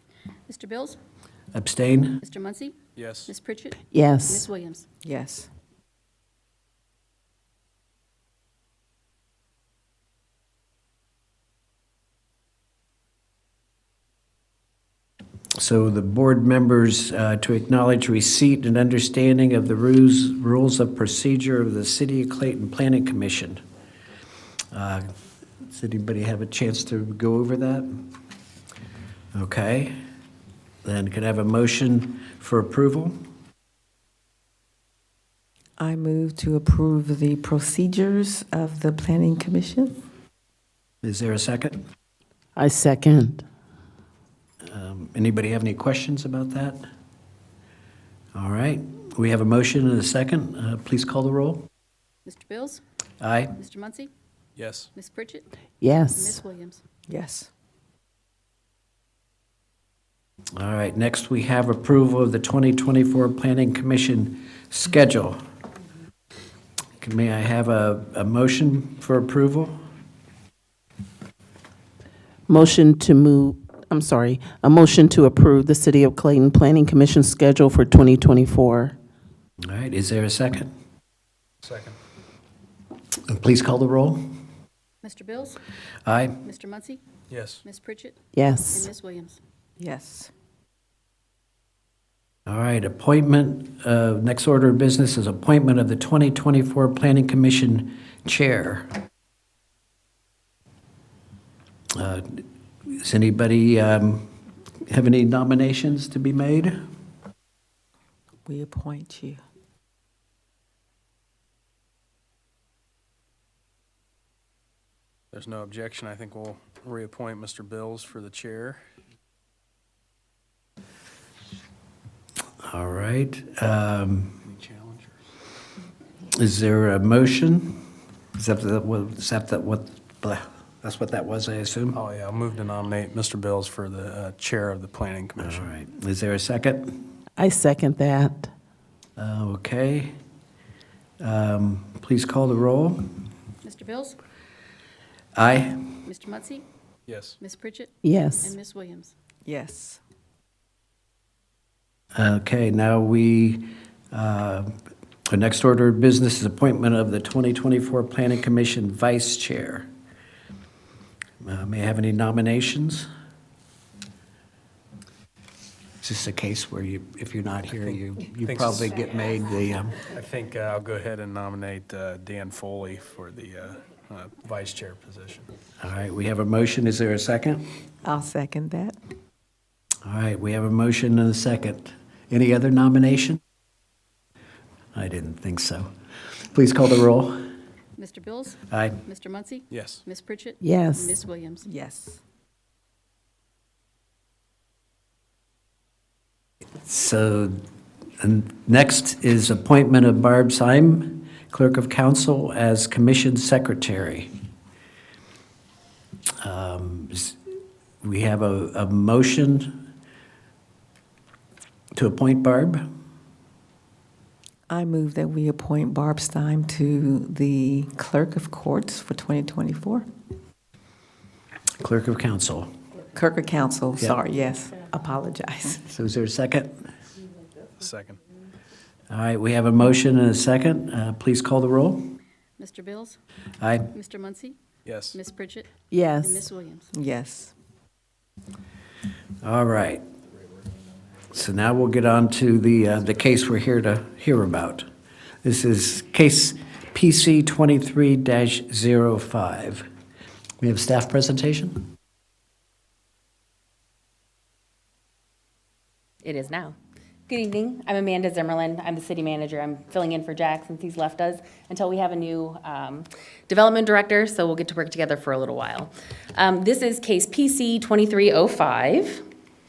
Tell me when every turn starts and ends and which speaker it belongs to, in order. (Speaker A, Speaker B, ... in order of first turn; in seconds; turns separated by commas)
Speaker A: 0.5-1.0, Speaker B: 1.5-2.2, Speaker A: 2.2-2.8, Speaker C: 3.0-3.3, Speaker A: 3.3-3.8, Speaker D: 3.9-4.5, Speaker A: 4.3-4.8, Speaker E: 5.0-5.5, Speaker B: 15.5-23.6, Speaker B: 24.7-25.1, Speaker B: 25.6-28.0, Speaker B: 29.3-30.0, Speaker B: 30.8-33.2, Speaker E: 35.8-40.0, Speaker B: 41.0-41.8, Speaker D: 42.5-43.4, Speaker B: 44.6-46.8, Speaker B: 48.3-51.7, Speaker A: 52.2-52.8, Speaker B: 53.2-53.6, Speaker A: 53.6-54.1, Speaker C: 54.6-54.9, Speaker A: 54.9-55.5, Speaker D: 55.8-56.4, Speaker A: 56.1-56.8, Speaker E: 57.1-57.5, Speaker B: 60.5-65.4, Speaker B: 67.0-69.8, Speaker D: 72.5-78.9, Speaker B: 79.6-80.7, Speaker C: 81.6-82.0, Speaker B: 83.3-84.2, Speaker A: 85.0-85.6, Speaker B: 86.0-86.4, Speaker A: 86.4-87.0, Speaker C: 87.3-87.6, Speaker A: 87.6-88.2, Speaker D: 88.3-88.9, Speaker A: 88.7-89.4, Speaker E: 89.8-90.3, Speaker B: 92.5-98.9, Speaker B: 101.9-104.3, Speaker B: 104.9-106.8, Speaker E: 108.5-109.4, Speaker C: 115.3-118.8, Speaker B: 122.6-124.4, Speaker C: 124.4-125.1, Speaker B: 126.3-127.8, Speaker B: 128.3-132.0, Speaker C: 131.9-135.7, Speaker B: 135.4-136.9, Speaker D: 137.4-138.5, Speaker B: 139.2-140.1, Speaker B: 141.2-143.1, Speaker A: 143.6-144.2, Speaker B: 145.3-145.8, Speaker A: 146.0-146.6, Speaker C: 147.1-147.4, Speaker A: 147.4-149.1, Speaker D: 148.0-148.6, Speaker E: 149.4-150.0, Speaker B: 152.1-154.7, Speaker B: 155.3-159.9, Speaker B: 161.4-163.1, Speaker B: 166.0-170.0, Speaker C: 167.8-169.0, Speaker C: 170.0-175.5, Speaker B: 175.8-177.6, Speaker E: 178.0-179.0, Speaker B: 180.0-183.4, Speaker B: 184.9-185.9, Speaker B: 186.4-187.4, Speaker A: 188.0-191.7, Speaker B: 188.7-189.0, Speaker C: 189.7-190.0, Speaker D: 190.6-191.2, Speaker E: 191.6-192.2, Speaker B: 196.8-197.6, Speaker B: 198.2-204.3, Speaker B: 206.4-207.4, Speaker B: 208.0-209.8, Speaker B: 211.9-212.8, Speaker E: 214.7-220.0, Speaker B: 221.8-222.7, Speaker E: 223.1-225.8, Speaker B: 225.8-226.8, Speaker C: 227.8-228.2, Speaker B: 229.1-232.1, Speaker A: 232.6-233.1, Speaker B: 233.6-233.9, Speaker A: 233.9-234.6, Speaker C: 234.8-235.2, Speaker A: 235.1-235.7, Speaker D: 235.9-236.5, Speaker A: 236.2-236.9, Speaker E: 236.9-237.5, Speaker B: 239.4-240.0, Speaker B: 241.3-244.9, Speaker B: 245.4-249.8, Speaker B: 250.6-251.9, Speaker F: 256.2-256.8, Speaker F: 257.3-269.2